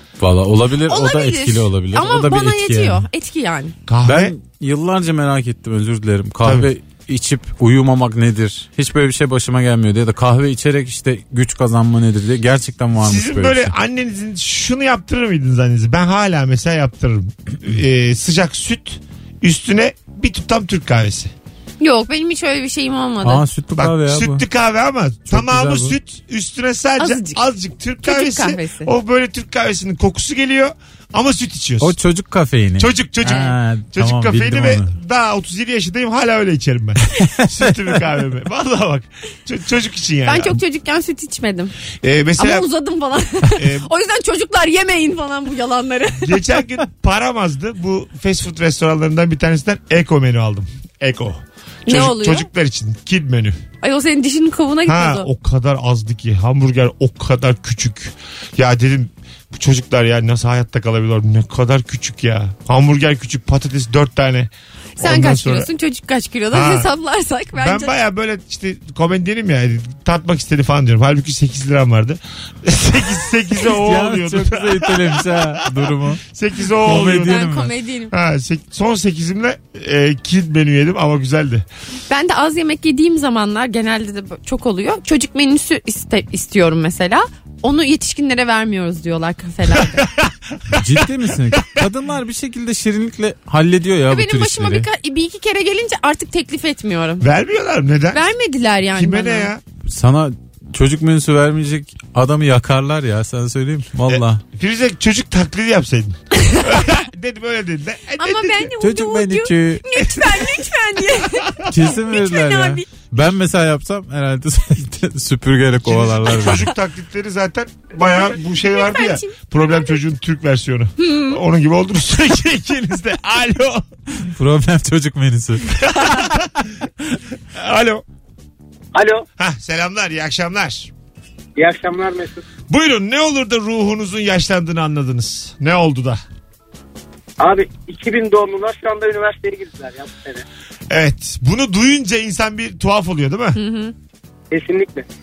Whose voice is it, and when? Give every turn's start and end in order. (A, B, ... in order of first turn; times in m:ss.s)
0:00.2-0:03.1 A
0:00.9-0:03.8 B
0:03.9-0:04.4 C
0:04.0-0:13.7 A
0:06.4-0:06.7 C
0:13.0-0:21.3 C
0:21.8-0:23.4 B
0:23.2-0:24.4 A
0:23.8-0:32.0 C
0:25.3-0:26.0 A
0:27.0-0:27.4 B
0:28.0-0:28.9 B
0:31.8-0:34.9 A
0:32.8-0:40.6 C
0:33.2-0:33.5 B
0:37.2-0:37.7 A
0:40.2-0:41.8 B
0:42.0-0:42.7 C
0:42.4-0:46.4 B
0:43.6-0:43.9 C
0:46.2-0:53.6 C
0:51.9-0:52.5 B
0:53.8-0:55.3 B
0:54.9-1:05.7 C
1:05.0-1:08.0 B
1:06.5-1:06.9 C
1:07.6-1:17.5 C
1:13.6-1:17.7 A
1:16.8-1:18.1 B
1:18.1-1:21.7 C
1:22.1-1:30.1 B
1:30.0-1:31.8 C
1:30.7-1:34.9 A
1:34.1-1:37.2 B
1:37.2-1:38.3 C
1:38.1-1:39.5 B
1:38.9-1:39.6 C
1:39.9-1:44.4 A
1:44.1-1:48.7 C
1:46.3-1:46.8 B
1:48.2-1:52.9 B
1:48.8-1:50.1 A
1:51.7-1:56.7 A
1:55.8-2:03.9 C
1:58.6-1:59.8 B
2:01.0-2:01.4 B
2:04.2-2:05.7 A
2:05.8-2:06.7 C
2:07.5-2:08.0 C
2:08.9-2:09.2 D
2:09.4-2:10.9 C
2:11.6-2:12.4 D
2:12.7-2:16.2 C
2:17.4-2:20.4 D
2:20.9-2:23.6 C
2:23.6-2:23.9 B
2:24.5-2:25.1 D